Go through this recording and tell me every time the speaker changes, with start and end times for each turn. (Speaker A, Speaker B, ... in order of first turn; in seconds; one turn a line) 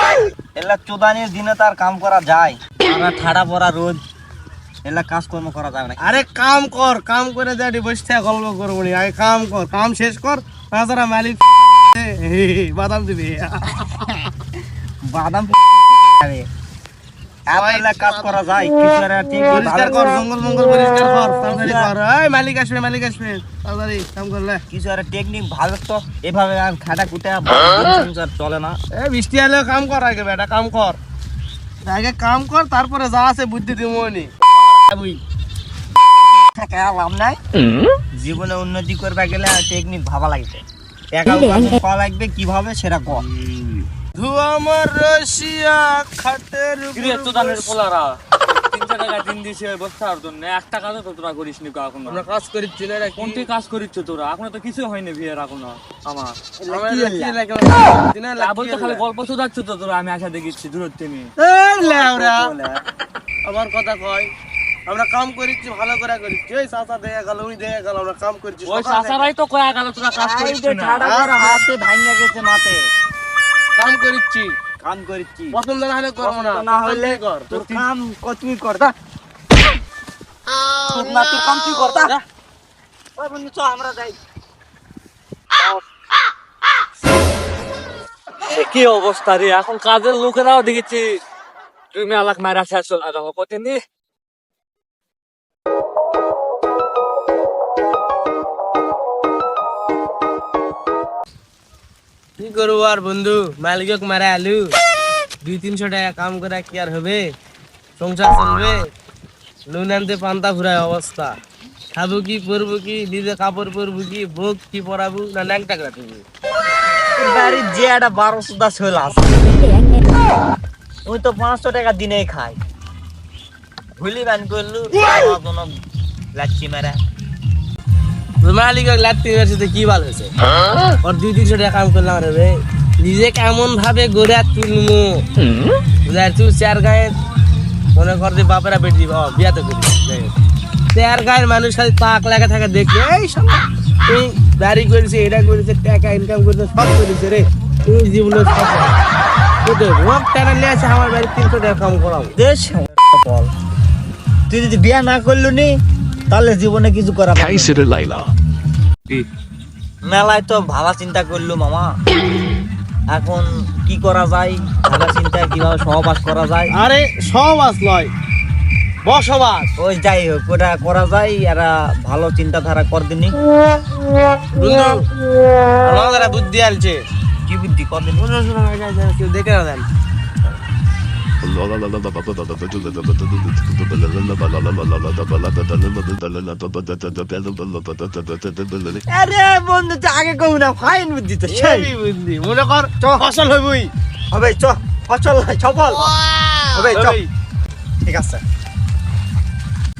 Speaker A: 0.6-4.0
Speaker A: 4.8-6.2
Speaker B: 6.0-14.1
Speaker A: 15.1-16.4
Speaker A: 17.5-20.2
Speaker B: 17.5-18.4
Speaker B: 19.5-24.6
Speaker A: 21.5-21.9
Speaker A: 24.7-28.8
Speaker B: 28.9-31.0
Speaker B: 31.8-34.3
Speaker A: 34.9-35.2
Speaker A: 36.5-37.4
Speaker A: 38.2-40.6
Speaker A: 41.1-43.2
Speaker B: 44.1-47.7
Speaker C: 46.9-52.2
Speaker B: 52.1-53.5
Speaker C: 53.2-56.4
Speaker A: 56.6-57.4
Speaker B: 56.6-59.0
Speaker C: 58.4-61.3
Speaker B: 61.4-62.5
Speaker A: 61.7-62.8
Speaker B: 63.5-64.3
Speaker B: 64.9-68.9
Speaker C: 68.6-71.0
Speaker A: 70.1-72.8
Speaker B: 71.0-71.6
Speaker B: 73.8-74.5
Speaker A: 74.8-75.5
Speaker B: 75.5-77.7
Speaker A: 76.2-78.9
Speaker A: 80.9-82.2
Speaker A: 83.2-84.2
Speaker C: 88.5-91.2
Speaker C: 91.9-93.8
Speaker B: 102.4-104.7
Speaker B: 105.4-107.2
Speaker B: 108.0-108.8
Speaker B: 109.7-111.3
Speaker B: 111.9-116.2
Speaker A: 117.2-119.8
Speaker A: 121.0-122.6
Speaker A: 124.0-125.7
Speaker A: 126.3-127.0
Speaker B: 128.4-130.3
Speaker B: 131.0-135.2
Speaker B: 136.1-137.1
Speaker B: 137.9-140.3
Speaker B: 140.9-149.0
Speaker B: 149.6-152.3
Speaker A: 152.3-153.5
Speaker A: 154.5-155.7
Speaker A: 156.3-157.8
Speaker D: 157.3-158.3
Speaker A: 160.0-161.9
Speaker A: 163.1-166.7
Speaker B: 166.7-168.1
Speaker B: 169.1-169.7
Speaker A: 169.8-173.4
Speaker B: 174.6-175.0
Speaker B: 175.8-177.0
Speaker A: 177.4-178.3
Speaker B: 178.2-179.8
Speaker D: 181.4-189.0
Speaker A: 189.1-191.9
Speaker B: 191.5-193.9
Speaker A: 193.0-193.2
Speaker A: 194.3-196.1
Speaker A: 196.7-197.2
Speaker B: 196.9-197.2
Speaker A: 198.0-198.4